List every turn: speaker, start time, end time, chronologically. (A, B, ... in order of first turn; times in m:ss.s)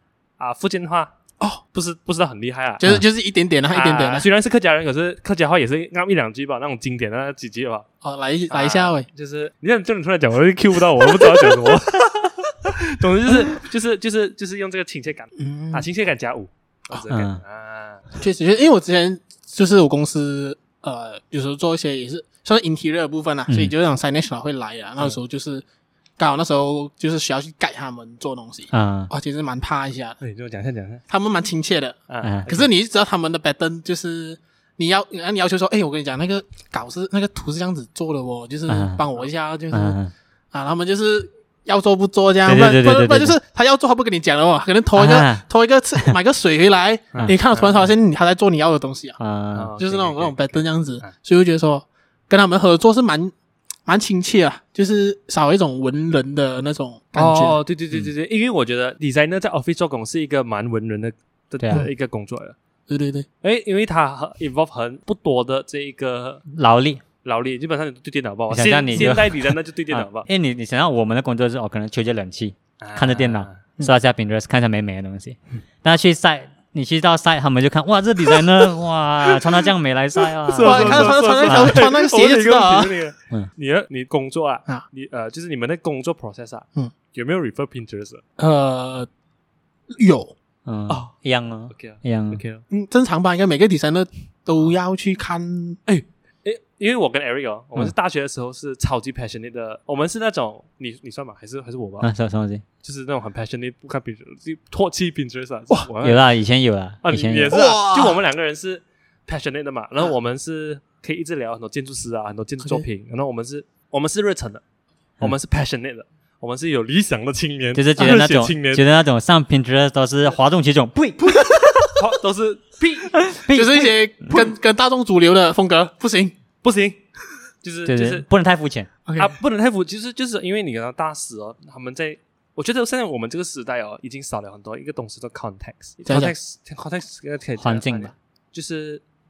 0:00.4-0:01.1 A
0:01.7-0:02.8 A
0:02.8-0:04.3 B
0:03.7-0:07.9 A
0:08.0-0:09.1 B
0:08.5-0:18.0 A
0:15.4-0:15.9 B
0:17.1-0:17.4 C
0:18.2-0:25.6 B
0:26.2-0:30.2 B
0:28.7-0:29.1 C
0:30.2-0:31.0 A
0:31.1-0:40.0 B
0:32.1-0:32.7 A
0:32.2-0:32.5 C
0:38.7-0:39.0 C
0:39.7-0:40.1 C
0:40.5-0:49.2 B
0:42.4-0:43.4 C
0:45.0-0:45.4 C
0:47.1-0:47.8 A
0:49.2-0:49.7 C
0:49.5-0:51.1 A
0:49.8-0:53.3 B
0:53.9-0:57.6 B
0:57.2-1:02.6 A
1:01.6-1:01.9 C
1:02.9-1:03.3 B
1:03.4-1:06.4 A
1:06.5-1:07.0 C
1:07.2-1:10.3 A
1:08.5-1:21.9 C
1:12.8-1:13.6 A
1:20.5-1:28.2 A
1:20.6-1:23.0 B
1:28.4-1:29.1 B
1:29.9-1:30.4 B
1:30.7-1:32.4 C
1:31.7-1:32.6 A
1:32.7-1:35.8 B
1:35.9-1:42.1 A
1:42.0-1:42.6 C
1:42.8-1:46.3 A
1:46.0-1:47.6 C
1:47.0-1:54.6 A
1:47.5-1:48.2 B
1:55.2-1:58.8 A
1:57.8-2:01.6 C
2:01.3-2:01.9 B
2:02.0-2:03.3 A
2:03.2-2:04.4 C
2:03.5-2:06.4 B
2:06.6-2:07.0 A
2:07.6-2:08.2 A
2:07.9-2:08.9 C
2:09.1-2:09.4 B
2:09.2-2:19.0 A
2:16.0-2:16.3 B
2:17.6-2:18.1 C